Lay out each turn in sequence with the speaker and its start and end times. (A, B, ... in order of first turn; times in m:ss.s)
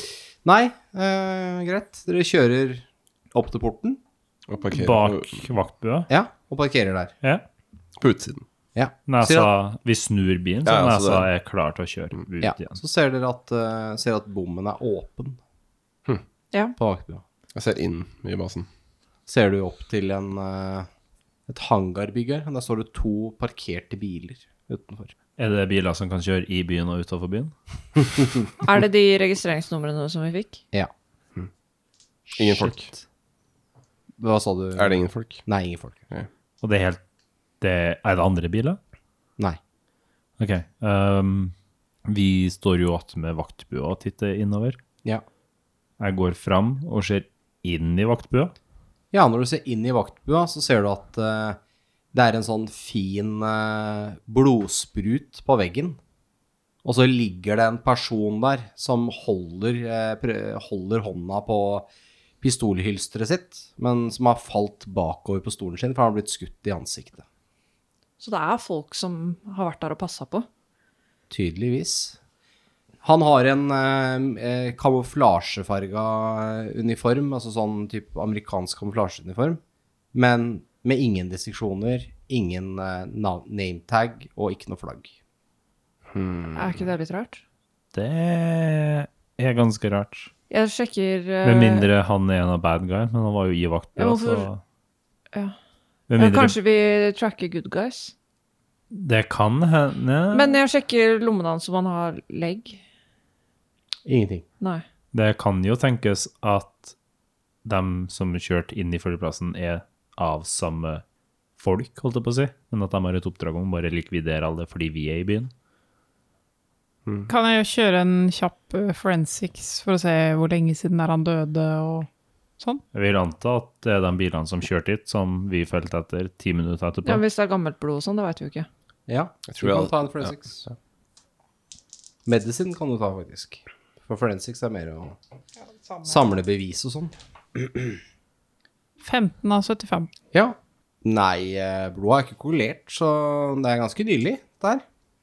0:00.4-0:04.0 A
0:04.5-0:05.5 B
0:04.7-0:06.1 C
0:06.1-0:07.2 A
0:08.0-0:08.4 B
0:08.8-0:09.5 A
0:09.1-0:12.8 C
0:10.6-0:11.3 B
0:12.4-0:15.4 A
0:16.8-0:17.2 A
0:17.6-0:18.7 B
0:19.3-0:20.9 A
0:21.5-0:25.1 A
0:25.4-0:27.5 C
0:28.6-0:30.6 D
0:32.3-0:33.0 A
0:32.4-0:32.9 B
0:34.2-0:36.0 A
0:34.8-0:35.4 B
0:36.6-0:37.0 C
0:37.6-0:38.8 C
0:40.4-0:41.5 C
0:42.1-0:44.8 C
0:46.0-0:48.5 C
0:49.1-0:51.6 A
0:52.1-0:56.0 A
0:56.8-1:01.9 A
1:02.4-1:07.2 A
1:08.2-1:10.5 D
1:11.3-1:12.2 A
1:13.0-1:19.6 A
1:20.1-1:25.2 A
1:26.1-1:26.8 B
1:26.5-1:27.4 D
1:27.9-1:30.3 C
1:30.5-1:31.9 D
1:31.4-1:34.6 C
1:34.0-1:34.5 D
1:36.1-1:36.6 C
1:36.2-1:38.1 D
1:38.9-1:40.6 C
1:40.3-1:42.8 D
1:44.1-1:44.4 A
1:45.1-1:46.9 C
1:47.6-1:51.0 C
1:51.6-1:55.5 C
1:57.3-2:02.1 E
2:02.9-2:07.2 C
2:07.0-2:08.7 D
2:09.1-2:10.7 A
2:09.5-2:10.7 B
2:12.3-2:15.2 A
2:16.0-2:18.0 A
2:19.0-2:20.1 E
2:20.3-2:24.8 A